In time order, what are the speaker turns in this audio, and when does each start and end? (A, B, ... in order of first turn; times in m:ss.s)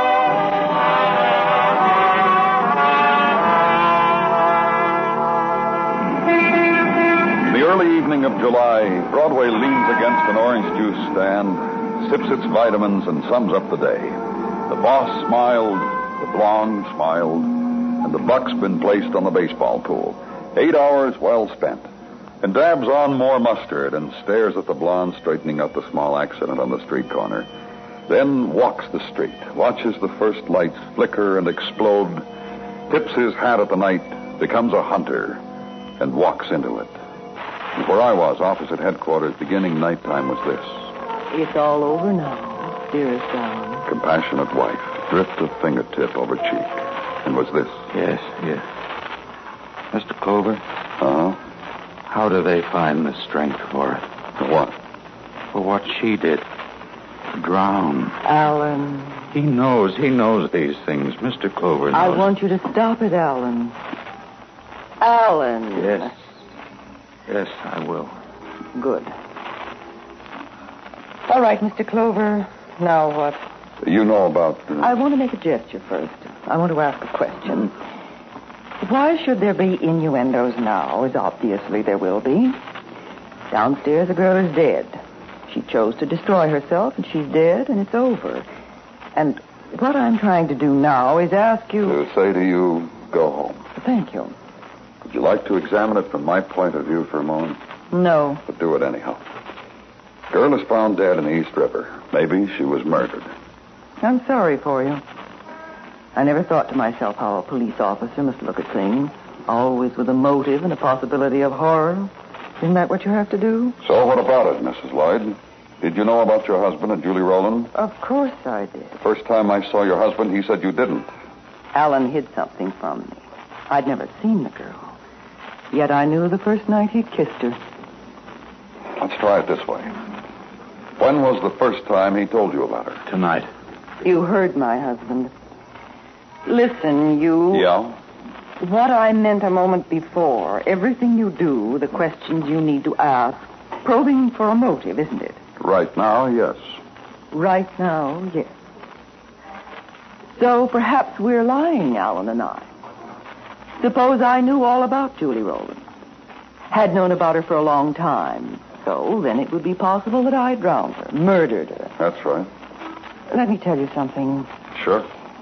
0:07.4-0:21.9 A
0:22.4-0:27.5 A
0:28.1-0:32.2 A
0:32.9-0:35.4 A
0:36.0-0:36.9 A
0:37.7-0:40.9 A
0:41.3-0:43.8 B
0:43.8-0:47.8 A
0:47.9-0:48.6 C
0:49.9-0:50.6 C
0:51.0-0:51.4 A
0:52.1-0:54.0 C
0:54.4-0:54.8 A
0:55.5-0:56.4 C
0:57.3-0:58.2 C
0:58.2-0:59.2 B
0:59.3-1:02.3 C
1:01.9-1:03.8 B
1:05.0-1:06.1 B
1:05.8-1:06.1 C
1:07.3-1:08.1 C
1:08.7-1:09.1 B
1:11.3-1:13.4 B
1:13.8-1:14.9 A
1:14.8-1:17.7 B
1:18.8-1:22.6 B
1:23.5-1:28.5 B
1:29.1-1:32.0 B
1:31.8-1:33.6 A
1:33.8-1:34.3 B
1:35.0-1:37.6 A
1:37.9-1:38.4 B
1:38.4-1:39.2 A
1:40.3-1:43.3 A
1:44.0-1:45.0 B
1:46.1-1:53.8 B
1:53.8-1:57.7 A
1:57.7-1:58.9 B
1:59.0-2:01.1 A
2:01.7-2:04.8 B
2:05.7-2:07.6 B
2:09.0-2:10.0 A
2:11.0-2:13.0 A
2:13.1-2:13.5 C
2:14.0-2:15.3 B
2:16.4-2:17.7 B
2:17.5-2:18.0 A
2:18.6-2:25.4 B
2:25.6-2:26.6 A
2:27.3-2:28.5 B
2:30.4-2:32.7 B
2:33.8-2:35.8 B
2:36.7-2:41.9 B
2:42.0-2:42.5 A
2:43.3-2:44.5 B
2:44.7-2:45.1 A